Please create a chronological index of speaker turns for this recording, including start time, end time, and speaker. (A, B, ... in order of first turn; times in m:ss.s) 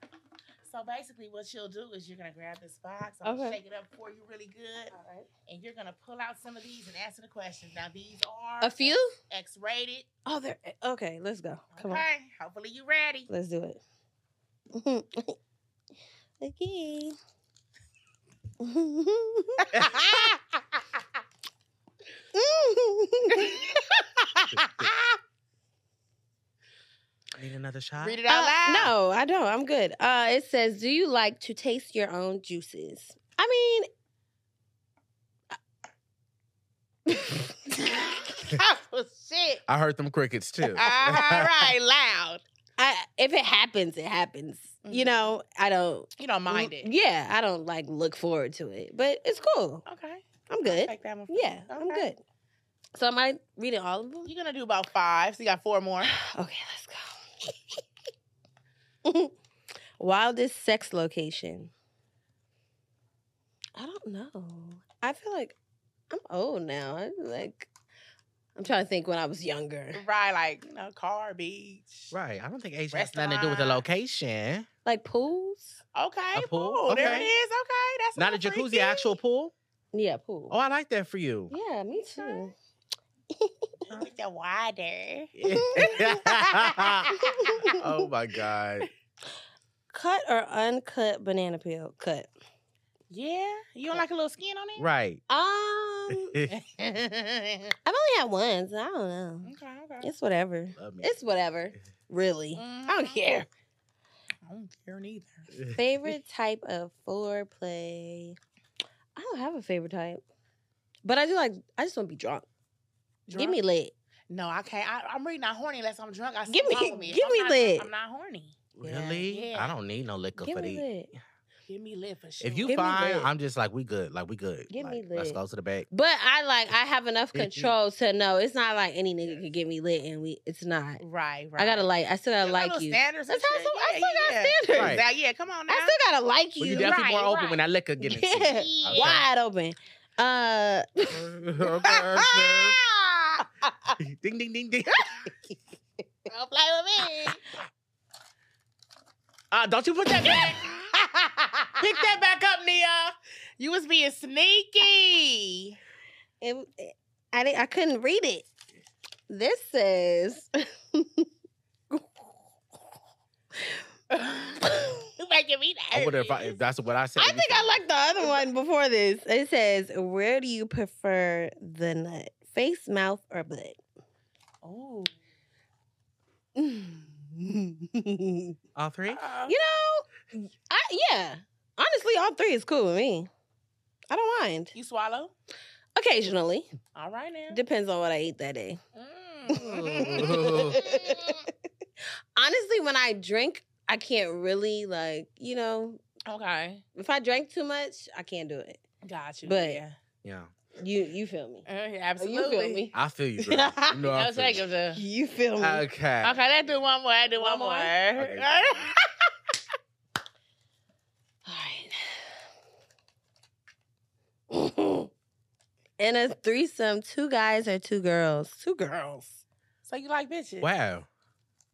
0:00.6-0:04.9 A
0:03.2-0:03.6 B
0:04.9-0:05.3 B
0:05.5-0:10.0 A
0:08.6-0:09.1 B
0:10.2-0:12.0 B
0:11.7-0:13.3 A
0:13.3-0:13.8 B
0:14.7-0:15.4 B
0:16.4-0:17.2 B
0:18.6-0:19.9 B
0:19.7-0:20.4 A
0:22.3-0:23.7 B
0:23.4-0:25.2 A
0:24.5-0:24.9 C
0:27.4-0:28.2 C
0:28.0-0:28.9 A
0:28.3-0:33.9 B
0:37.1-0:37.6 B
0:37.7-0:39.6 A
0:39.7-0:41.5 C
0:40.7-0:42.4 A
0:42.8-0:49.8 B
0:44.8-0:45.2 A
0:46.2-0:46.9 A
0:49.8-0:52.1 A
0:50.5-0:52.2 B
0:52.9-0:54.3 B
0:54.2-0:56.1 A
0:56.0-0:57.8 B
0:59.0-0:59.3 B
1:00.0-1:01.7 B
1:03.8-1:05.5 B
1:06.1-1:07.7 B
1:08.6-1:10.0 B
1:09.9-1:12.1 A
1:12.1-1:14.7 C
1:12.9-1:13.8 A
1:14.8-1:15.8 B
1:15.9-1:19.2 A
1:16.3-1:17.3 C
1:17.0-1:17.2 B
1:18.2-1:19.5 C
1:19.9-1:20.6 B
1:20.5-1:21.5 C
1:21.5-1:22.5 B
1:22.0-1:22.5 A
1:23.3-1:23.9 B
1:23.9-1:27.6 A
1:25.4-1:27.2 C
1:25.5-1:26.3 B
1:27.1-1:28.1 B
1:27.7-1:28.9 C
1:29.9-1:32.3 B
1:33.1-1:34.8 A
1:34.8-1:35.2 C
1:35.3-1:36.4 B
1:36.1-1:36.5 C
1:36.5-1:37.7 A
1:37.8-1:43.5 B
1:39.4-1:40.1 A
1:40.8-1:41.1 C
1:42.6-1:43.4 A
1:44.4-1:45.5 A
1:45.7-1:48.4 B
1:49.1-1:50.2 B
1:51.0-1:52.4 B
1:53.3-1:53.6 A
1:53.3-1:53.9 B
1:54.3-1:58.6 A
1:56.5-1:57.9 B
1:58.8-2:00.8 C
1:58.8-1:59.2 B
1:59.2-1:59.7 A
2:00.4-2:01.1 B
2:01.7-2:02.8 A
2:02.4-2:05.9 C
2:02.7-2:03.3 B
2:04.7-2:05.4 B
2:05.9-2:11.0 B
2:07.3-2:07.7 C
2:11.0-2:11.9 A
2:11.6-2:15.0 B
2:12.4-2:15.9 A
2:14.7-2:15.0 C
2:15.7-2:16.9 B
2:16.6-2:19.2 C
2:16.7-2:17.6 A
2:18.0-2:22.6 B
2:18.4-2:19.2 A
2:21.1-2:22.8 C
2:22.8-2:23.3 A
2:23.6-2:23.9 B
2:24.0-2:25.3 C
2:26.3-2:27.4 A
2:29.5-2:30.6 C
2:30.2-2:32.1 A
2:31.8-2:33.1 C
2:33.6-2:35.8 A
2:36.4-2:38.4 B
2:39.3-2:41.3 B
2:41.9-2:42.3 B
2:44.1-2:46.6 A
2:44.7-2:45.1 B
2:45.9-2:47.8 C
2:47.2-2:53.8 B
2:54.6-2:55.1 A
2:56.6-2:58.6 B
2:58.7-2:59.2 C
2:59.1-2:59.5 A
2:59.4-3:03.3 B
3:04.1-3:04.7 B
3:04.7-3:05.3 A
3:06.0-3:06.6 B
3:06.9-3:07.6 A
3:07.5-3:08.8 B
3:08.9-3:11.4 A
3:09.5-3:11.4 B
3:09.6-3:10.8 C
3:12.3-3:16.0 B
3:16.2-3:16.8 A
3:16.9-3:18.8 B
3:19.0-3:20.0 A
3:19.4-3:19.8 B
3:20.2-3:20.5 C
3:20.8-3:21.6 B
3:21.6-3:22.9 A
3:22.2-3:24.0 B
3:22.9-3:24.6 C
3:24.0-3:25.0 A
3:24.9-3:25.8 B
3:25.6-3:26.4 C
3:26.2-3:29.0 A
3:27.4-3:27.9 B
3:28.2-3:28.9 C
3:31.4-3:32.3 B
3:34.5-3:35.1 B
3:36.0-3:39.4 B
3:39.8-3:40.7 A
3:40.6-3:41.0 C